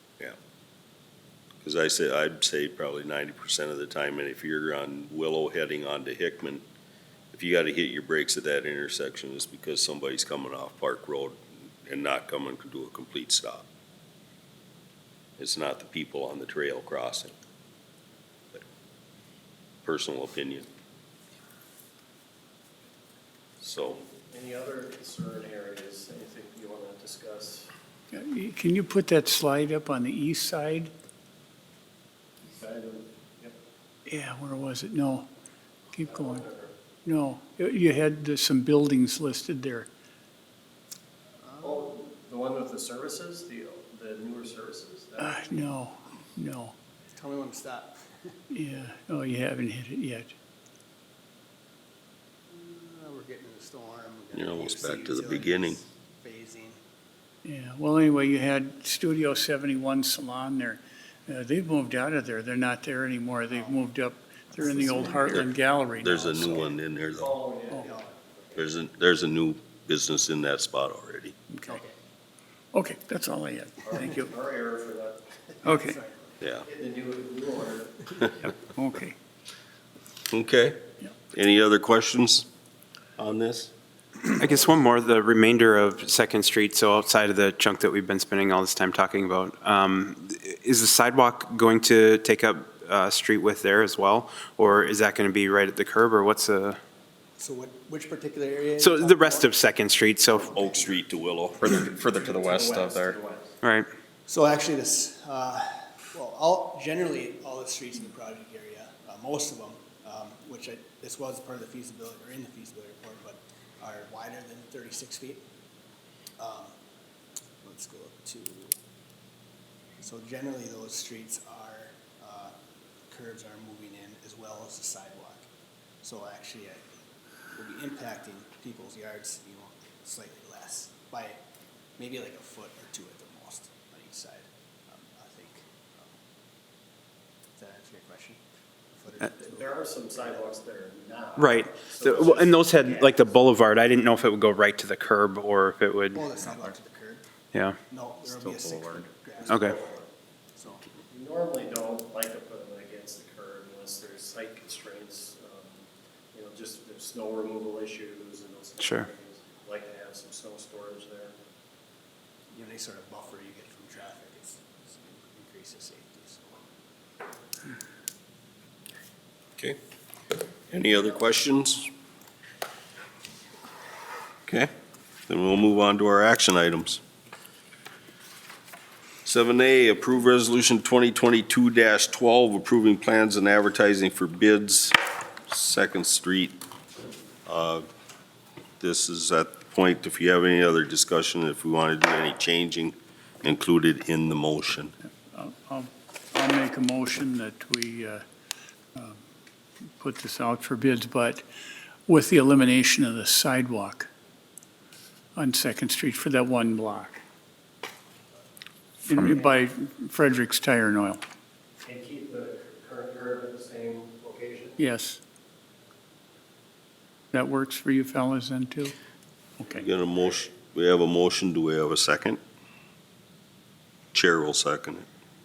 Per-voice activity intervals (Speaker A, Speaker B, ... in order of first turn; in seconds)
Speaker A: 1.6-6.6, 7.3-13.7, 15.4-17.3, 19.8-20.7, 23.6-24.0, 54.3-55.8, 65.3-67.3, 68.5-71.3, 80.3-80.8, 81.3-82.5, 83.2-83.7, 100.5-101.6, 170.7-171.9, 175.3-177.0, 179.2-185.0, 185.5-186.6, 187.4-187.8, 188.8-194.9, 219.7-222.4, 224.1-225.1
Speaker B: 24.1-27.7, 32.5-33.5, 36.0-36.7, 41.6-45.6, 67.2-68.6, 73.8-75.7, 76.6-78.5, 102.1-103.5, 139.3-143.4, 149.4-150.0, 151.1-155.8, 156.3-161.3, 211.8-214.8
Speaker C: 28.1-30.9, 34.1-35.3, 35.9-36.5, 37.0-39.9, 45.2-46.7, 48.5-50.3, 57.4-66.7, 71.5-71.8, 72.7-74.3, 75.6-76.0, 78.8-79.2, 195.3-198.2, 198.9-199.2, 200.0-201.4, 202.1-204.1, 205.3-207.2, 209.1-211.2, 214.8-215.2, 217.3-218.9, 219.6-219.8
Speaker D: 41.4-41.9, 47.1-48.4, 52.5-56.8, 63.5-63.8, 64.6-65.3, 67.7-68.1, 71.7-71.9, 75.8-76.2, 97.4-99.7, 100.2-100.9, 104.3-115.5, 116.4-116.7, 117.6-118.7, 120.0-122.5, 123.1-125.5, 126.0-126.8, 127.5-131.4, 132.0-136.1, 137.6-138.4, 138.9-140.3, 146.1-147.2, 147.9-149.8, 150.6-150.9, 162.5-166.6
Speaker E: 84.3-96.8, 98.8-100.5, 103.6-103.9, 141.3-146.2, 149.5-149.8, 158.8-159.1
Speaker F: 101.6-103.2, 148.3-149.1